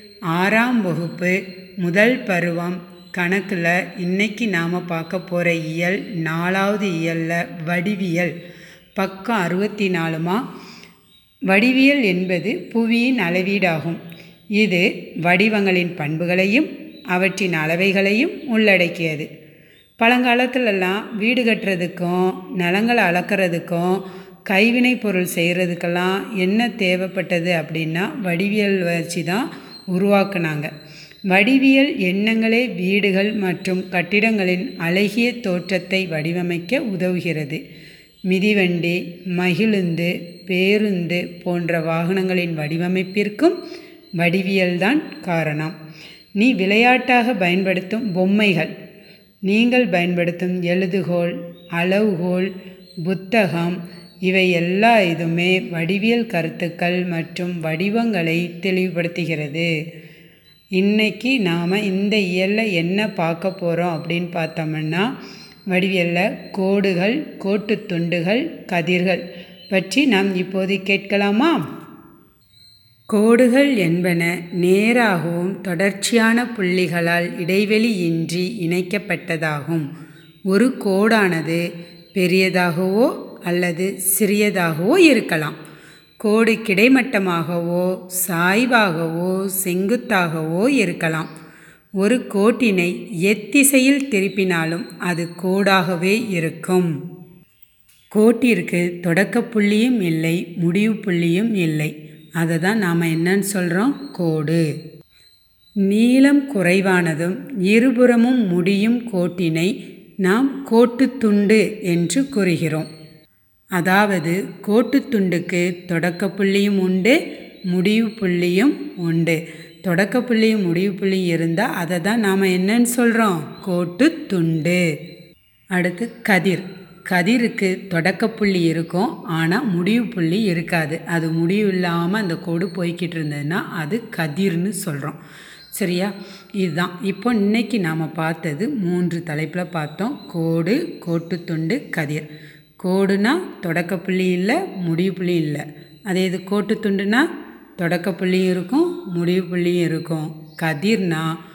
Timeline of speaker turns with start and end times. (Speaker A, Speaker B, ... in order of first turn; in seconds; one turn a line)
Speaker A: 0.3-8.3
Speaker A: 9.0-10.4
Speaker A: 11.5-14.0
Speaker A: 14.6-19.3
Speaker A: 20.0-30.7
Speaker A: 31.3-37.6
Speaker A: 38.3-43.6
Speaker A: 44.2-45.8
Speaker A: 46.4-48.7
Speaker A: 49.5-52.5
Speaker A: 53.0-59.7
Speaker A: 60.8-65.1
Speaker A: 65.7-71.6
Speaker A: 73.1-79.9
Speaker A: 80.5-81.6
Speaker A: 82.2-85.6
Speaker A: 86.2-91.3
Speaker A: 92.0-96.9
Speaker A: 98.1-104.6
Speaker A: 105.9-109.7
Speaker A: 110.2-112.9
Speaker A: 113.8-117.2
Speaker A: 117.7-124.8
Speaker A: 125.7-135.2
Speaker A: 135.8-142.3
Speaker A: 142.8-147.2
Speaker A: 147.8-151.3